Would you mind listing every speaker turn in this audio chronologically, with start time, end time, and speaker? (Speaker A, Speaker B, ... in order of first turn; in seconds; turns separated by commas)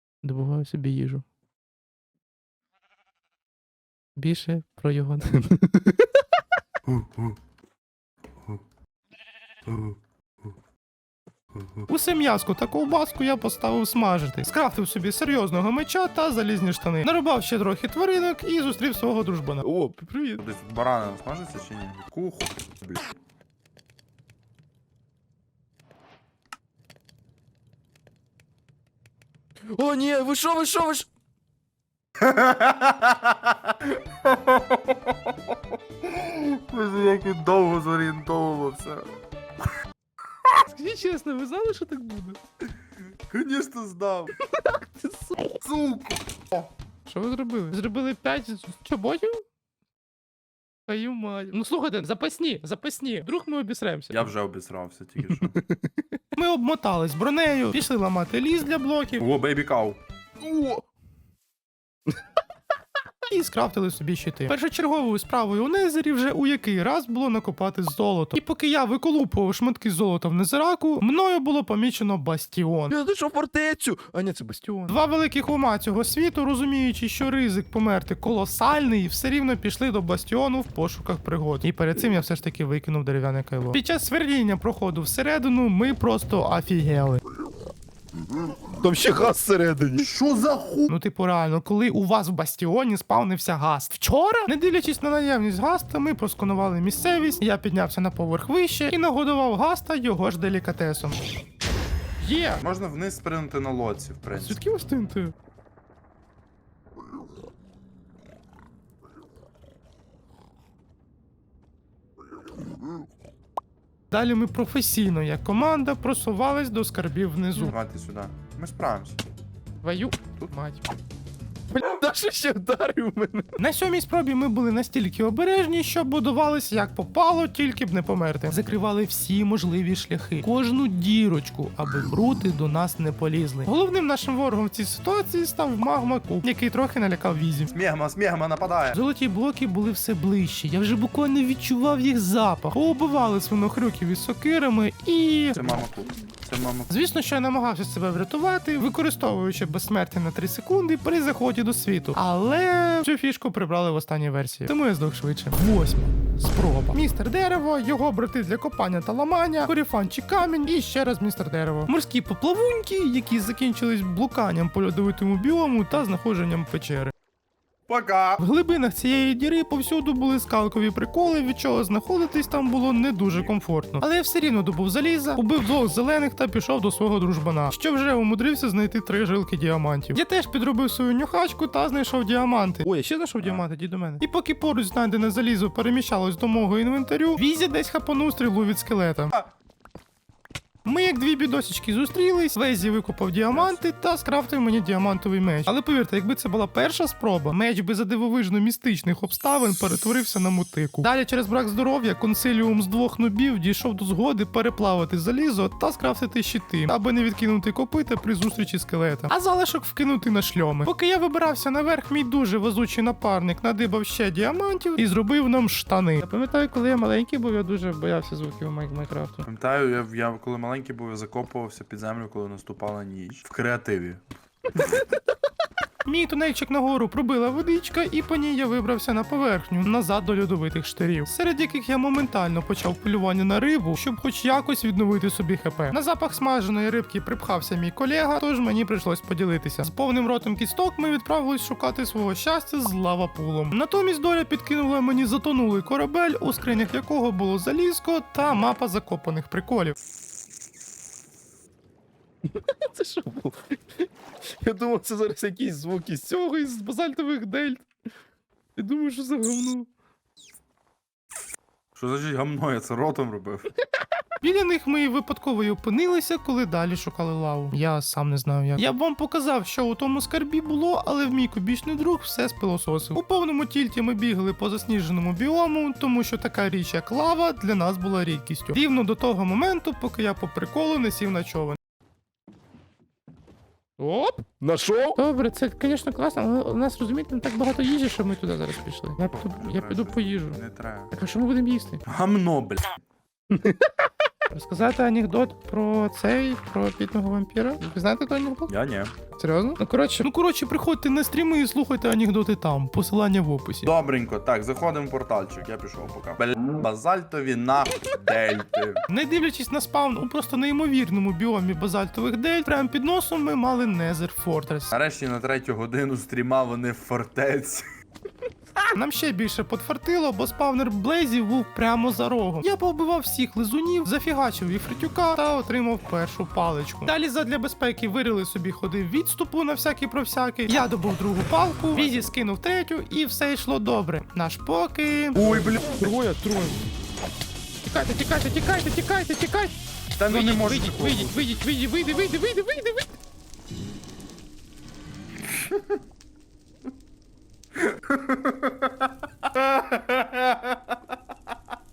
Speaker A: 0.2-1.2, Speaker A: 4.2-5.7, Speaker B: 6.9-7.4, Speaker B: 9.7-10.5, Speaker B: 11.6-11.8, Speaker A: 11.9-19.6, Speaker C: 19.6-20.4, Speaker B: 20.4-23.1, Speaker C: 29.7-31.1, Speaker B: 32.2-39.1, Speaker A: 40.7-42.4, Speaker B: 43.3-44.3, Speaker A: 44.6-45.4, Speaker B: 45.6-46.7, Speaker A: 47.1-49.5, Speaker A: 50.9-54.3, Speaker B: 54.1-55.6, Speaker C: 55.4-55.9, Speaker A: 56.3-59.2, Speaker B: 59.2-60.0, Speaker C: 60.4-60.9, Speaker A: 63.3-72.9, Speaker C: 72.9-74.9, Speaker A: 74.9-87.2, Speaker C: 88.7-90.1, Speaker B: 90.0-90.9, Speaker A: 90.9-101.2, Speaker A: 102.2-102.6, Speaker B: 102.6-104.6, Speaker A: 104.3-105.3, Speaker A: 114.1-117.8, Speaker B: 117.5-119.2, Speaker A: 119.8-120.8, Speaker C: 121.7-123.5, Speaker A: 123.6-137.7, Speaker B: 137.7-139.0, Speaker A: 138.9-145.8, Speaker B: 145.6-146.9, Speaker A: 146.9-167.1, Speaker B: 167.9-168.4, Speaker A: 168.4-189.3, Speaker B: 183.4-183.6, Speaker A: 190.8-219.5, Speaker B: 193.5-193.8, Speaker B: 219.4-224.2, Speaker A: 226.0-249.9, Speaker C: 252.4-256.3, Speaker A: 256.3-257.9, Speaker A: 258.8-259.9, Speaker B: 261.9-263.7, Speaker A: 264.4-281.8, Speaker A: 284.0-284.4, Speaker C: 284.6-285.2, Speaker A: 285.2-290.6, Speaker B: 289.2-291.1, Speaker A: 291.1-292.0, Speaker B: 292.0-292.9, Speaker C: 293.5-293.8, Speaker A: 294.5-298.7, Speaker B: 298.7-299.1, Speaker A: 299.4-303.9, Speaker B: 303.8-309.0, Speaker A: 309.1-314.9, Speaker B: 314.9-317.8, Speaker A: 318.9-336.8, Speaker B: 331.9-332.3, Speaker B: 335.4-336.1, Speaker C: 335.4-336.1, Speaker A: 337.8-339.7, Speaker B: 340.1-341.5, Speaker A: 340.3-343.1, Speaker B: 345.5-346.0, Speaker B: 347.8-351.1